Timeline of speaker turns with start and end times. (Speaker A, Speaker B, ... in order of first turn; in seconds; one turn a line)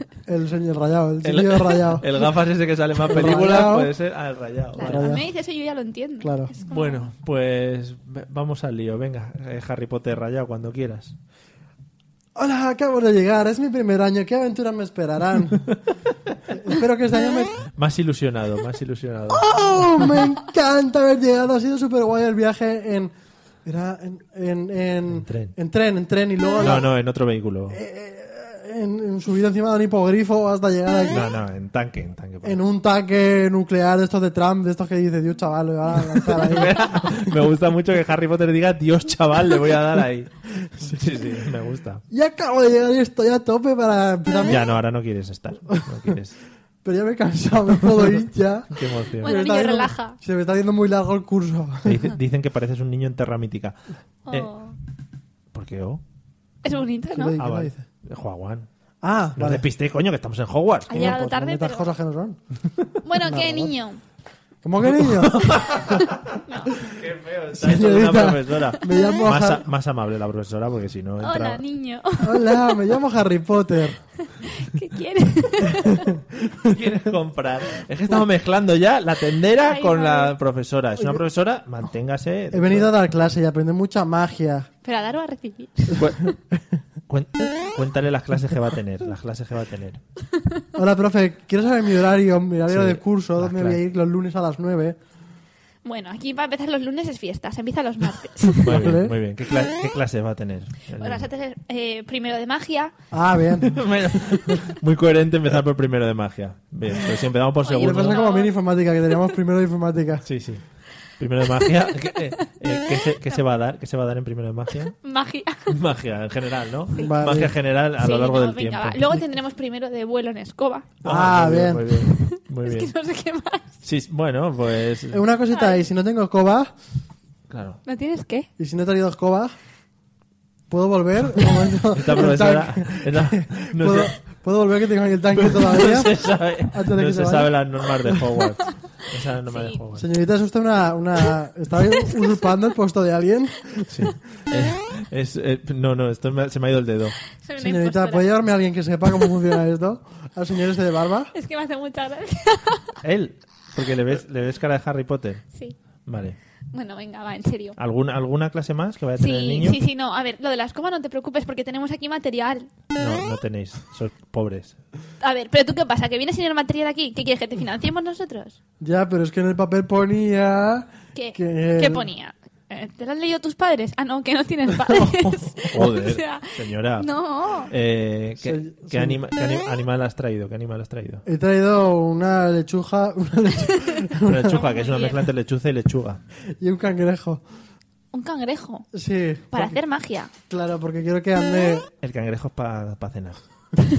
Speaker A: 0.3-2.3
Speaker B: 1.2-5.2
Speaker A: 3.0-3.9
Speaker C: 4.7-7.0
Speaker A: 4.8-5.2
Speaker A: 6.2-6.5
Speaker B: 6.7-11.1
Speaker A: 12.3-15.7
Speaker A: 16.5-17.6
Speaker B: 17.7-19.5
Speaker A: 19.3-23.1
Speaker A: 23.6-26.9
Speaker B: 25.1-25.5
Speaker B: 26.6-27.8
Speaker A: 27.7-31.3
Speaker B: 31.1-32.6
Speaker A: 32.4-37.1
Speaker B: 36.1-42.0
Speaker A: 40.7-41.2
Speaker A: 42.1-44.7
Speaker B: 44.4-46.4
Speaker A: 45.7-46.1
Speaker A: 46.8-52.1
Speaker B: 48.7-49.4
Speaker C: 49.2-50.2
Speaker B: 51.8-53.8
Speaker C: 54.3-54.8
Speaker B: 55.5-56.0
Speaker C: 56.6-57.4
Speaker A: 57.1-57.9
Speaker B: 57.4-58.7
Speaker A: 59.0-59.6
Speaker B: 59.4-61.1
Speaker C: 60.9-61.9
Speaker A: 60.9-62.4
Speaker C: 63.0-64.0
Speaker A: 63.2-63.7
Speaker A: 64.6-65.8
Speaker B: 64.8-71.6
Speaker C: 66.5-66.7
Speaker A: 67.5-69.7
Speaker C: 68.8-69.2
Speaker C: 71.2-72.7
Speaker A: 72.2-74.0
Speaker C: 74.2-76.1
Speaker A: 75.7-76.8
Speaker B: 76.6-82.9
Speaker C: 79.6-80.3
Speaker A: 80.9-81.2
Speaker A: 82.5-84.7
Speaker C: 84.8-86.0
Speaker B: 85.9-86.2
Speaker A: 86.2-86.6
Speaker B: 87.1-90.0
Speaker A: 90.7-95.0
Speaker B: 92.7-93.8
Speaker C: 95.8-98.9
Speaker B: 98.6-101.2
Speaker A: 98.6-99.1
Speaker C: 101.0-102.9
Speaker A: 103.1-104.5
Speaker B: 103.6-108.2
Speaker C: 107.6-108.5
Speaker A: 107.8-110.2
Speaker B: 110.2-110.6
Speaker B: 111.2-114.9
Speaker C: 115.0-115.8
Speaker B: 115.7-119.0
Speaker C: 116.9-117.2
Speaker A: 117.0-117.5
Speaker C: 118.0-120.9
Speaker A: 121.0-122.1
Speaker B: 121.0-122.9
Speaker C: 122.1-123.7
Speaker B: 123.8-125.2
Speaker A: 125.1-126.7
Speaker C: 125.5-125.8
Speaker B: 127.5-127.8
Speaker C: 127.8-128.5
Speaker A: 128.6-129.6
Speaker A: 130.7-138.4
Speaker B: 131.9-134.1
Speaker B: 135.4-140.1
Speaker C: 139.5-139.8
Speaker A: 139.9-144.1
Speaker B: 143.9-147.2
Speaker C: 147.4-148.3
Speaker A: 147.6-151.3
Speaker C: 151.3-152.9
Speaker B: 153.0-155.4
Speaker B: 156.1-156.4
Speaker C: 156.7-157.8
Speaker B: 157.8-159.8
Speaker C: 159.2-162.7
Speaker B: 162.9-164.8
Speaker C: 165.2-168.6
Speaker A: 168.8-172.1
Speaker C: 171.1-177.7
Speaker B: 175.7-177.1
Speaker B: 177.7-181.2
Speaker A: 178.4-179.2
Speaker A: 181.2-184.6
Speaker B: 184.2-186.2
Speaker C: 184.5-185.3
Speaker A: 186.6-187.4
Speaker C: 188.1-188.9
Speaker A: 188.9-189.8
Speaker C: 189.5-190.3
Speaker A: 190.5-191.9
Speaker B: 192.0-193.4